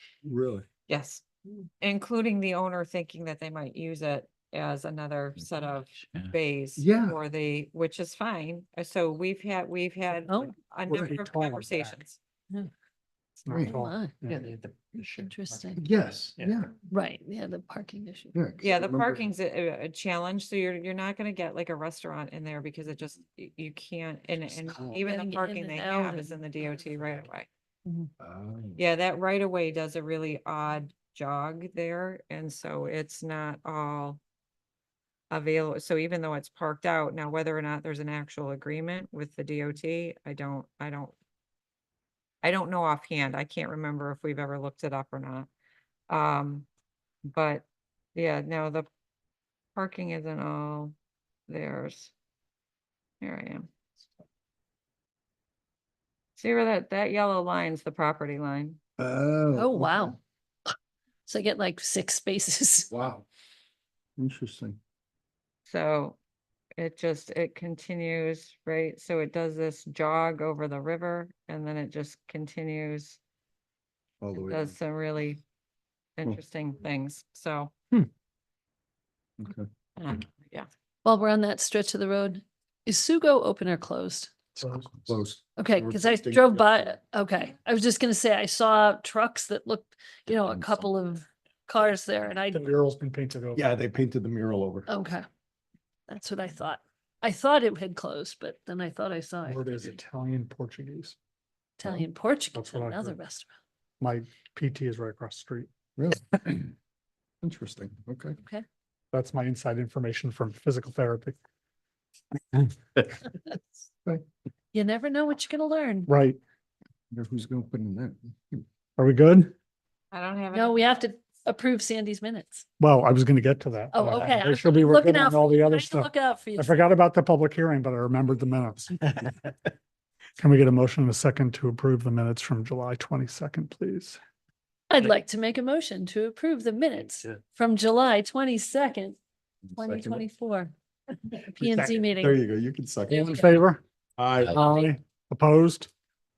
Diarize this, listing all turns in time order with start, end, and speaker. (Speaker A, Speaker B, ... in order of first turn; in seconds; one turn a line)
Speaker A: 0.2-0.7
Speaker B: 0.9-1.2
Speaker B: 1.8-12.2
Speaker A: 6.8-7.2
Speaker C: 10.3-10.5
Speaker D: 10.9-11.9
Speaker D: 13.4-15.3
Speaker A: 13.5-13.8
Speaker C: 13.6-15.8
Speaker A: 15.8-16.7
Speaker D: 16.4-16.6
Speaker C: 16.9-18.3
Speaker A: 18.3-19.2
Speaker B: 18.6-27.5
Speaker C: 24.8-26.7
Speaker A: 28.2-28.8
Speaker B: 28.8-34.2
Speaker B: 35.3-41.1
Speaker B: 42.4-45.5
Speaker B: 46.1-46.7
Speaker B: 47.3-48.9
Speaker B: 49.7-51.0
Speaker B: 51.5-52.1
Speaker B: 53.2-53.7
Speaker B: 56.4-58.8
Speaker A: 59.0-60.1
Speaker C: 59.5-60.2
Speaker C: 61.3-62.9
Speaker A: 62.9-63.2
Speaker A: 64.2-64.8
Speaker B: 65.7-66.2
Speaker B: 66.8-73.2
Speaker A: 74.2-74.7
Speaker B: 74.3-75.4
Speaker B: 76.2-78.1
Speaker A: 79.4-79.7
Speaker B: 80.0-80.7
Speaker C: 81.0-84.3
Speaker A: 84.6-86.9
Speaker D: 84.6-85.1
Speaker C: 85.6-92.6
Speaker D: 92.5-93.6
Speaker A: 93.5-94.9
Speaker C: 94.9-95.2
Speaker C: 96.1-99.6
Speaker D: 99.5-101.2
Speaker C: 101.8-103.5
Speaker D: 102.5-103.2
Speaker D: 104.0-105.7
Speaker A: 106.0-106.7
Speaker A: 107.4-108.4
Speaker D: 109.1-111.4
Speaker C: 114.7-116.1
Speaker D: 116.1-116.4
Speaker A: 117.1-118.6
Speaker D: 119.0-119.5
Speaker B: 120.1-121.0
Speaker C: 120.5-122.6
Speaker D: 122.8-129.1
Speaker C: 123.9-126.8
Speaker D: 130.4-134.2
Speaker C: 134.9-139.2
Speaker C: 139.7-140.7
Speaker C: 141.2-142.4
Speaker D: 141.6-142.0
Speaker A: 142.2-143.5
Speaker C: 143.1-143.6
Speaker D: 143.1-143.8
Speaker A: 144.2-144.6
Speaker D: 144.5-145.9